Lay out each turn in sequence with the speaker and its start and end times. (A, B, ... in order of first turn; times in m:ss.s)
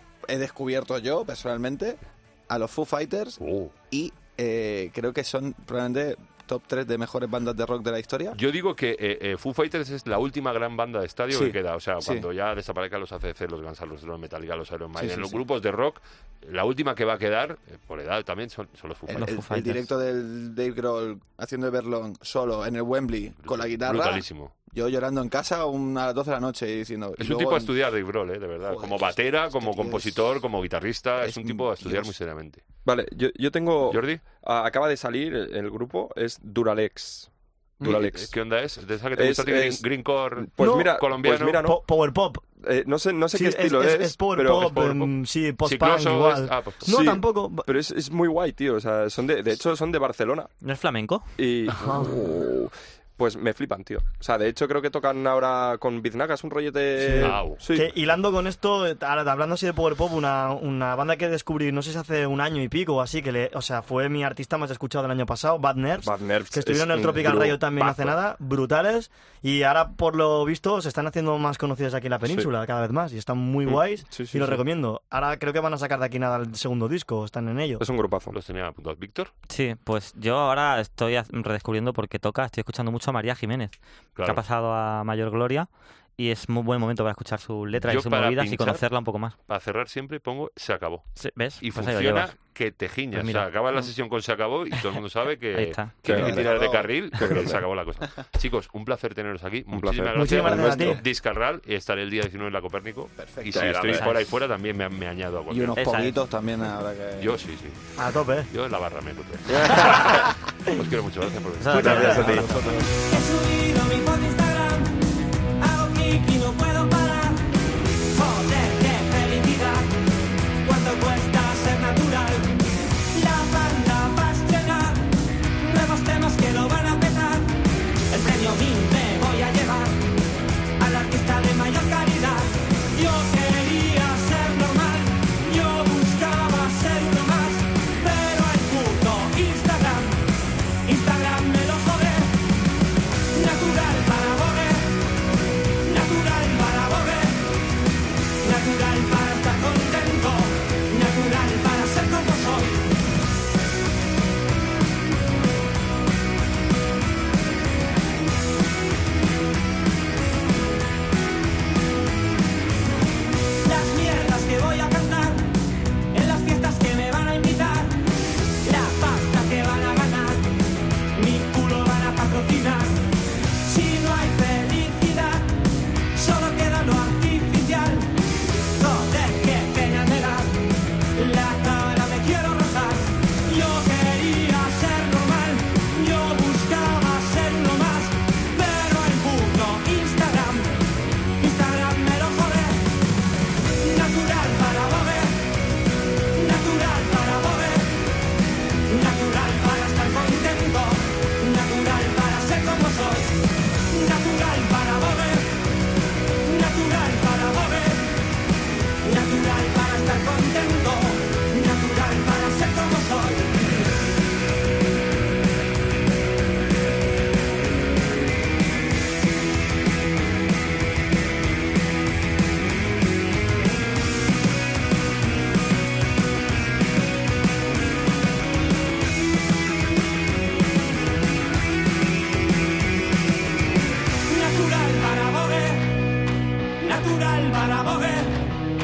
0:00.3-0:03.4 A
0:03.4-0:03.7 B
0:03.9-0:08.4 A
0:08.3-0:19.3 B
0:11.3-0:12.3 A
0:15.0-0:15.4 A
0:19.0-0:27.7 A
0:19.2-0:19.9 C
0:23.4-0:24.5 B
0:27.2-0:32.6 B
0:28.7-0:30.2 A
0:31.2-0:32.1 A
0:32.8-0:38.3 D
0:33.8-0:34.2 B
0:37.8-0:41.6 B
0:39.1-0:39.8 D
0:40.4-0:41.8 D
0:40.6-0:41.0 E
0:41.6-0:42.5 E
0:42.6-0:45.0 D
0:43.3-0:47.7 E
0:44.6-0:45.1 B
0:45.6-0:46.9 B
0:46.8-0:50.5 D
0:50.6-0:51.3 C
0:51.4-0:57.9 D
0:51.8-0:52.1 E
0:57.0-1:17.8 E
0:57.2-0:57.6 B
1:06.0-1:08.2 D
1:12.2-1:12.5 D
1:13.6-1:14.6 D
1:17.8-1:18.4 D
1:18.3-1:19.3 B
1:19.5-1:25.7 C
1:24.2-1:24.4 B
1:26.2-1:29.3 C
1:27.8-1:28.8 B
1:29.5-1:45.8 B
1:31.2-1:32.3 C
1:33.1-1:33.4 C
1:35.5-1:35.9 C
1:36.0-1:36.5 D
1:36.1-1:36.9 A
1:37.2-1:37.6 D
1:39.7-1:41.0 D
1:40.1-1:41.0 E
1:43.2-1:43.8 A
1:43.5-1:44.1 D
1:43.8-1:44.2 C
1:45.5-1:47.4 A
1:45.8-1:46.2 C
1:47.2-1:47.9 B
1:48.0-1:48.5 E
1:48.5-1:52.2 B
1:51.6-1:52.9 C
1:51.7-1:52.4 E
1:51.8-1:52.7 D
1:53.0-1:55.0 F
1:55.6-1:57.5 F
1:58.0-1:59.9 F
2:00.6-2:02.6 F
2:03.1-2:07.6 F
2:08.1-2:10.0 F
2:10.8-2:20.2 F
2:20.8-2:22.4 F
2:23.3-2:24.9 F
2:25.8-2:27.5 F
2:28.4-2:32.8 F
2:43.6-2:45.6 F
2:46.1-2:48.0 F
2:48.6-2:50.5 F
2:51.1-2:53.0 F
2:53.6-2:55.6 F
2:56.1-2:58.1 F
2:58.7-3:00.6 F
3:01.1-3:10.8 F
3:11.4-3:12.8 F
3:13.8-3:15.4 F
3:16.3-3:18.0 F
3:18.9-3:25.6 F
3:26.4-3:28.2 F
3:29.0-3:33.6 F
3:54.3-3:56.0 F
3:56.8-3:58.5 F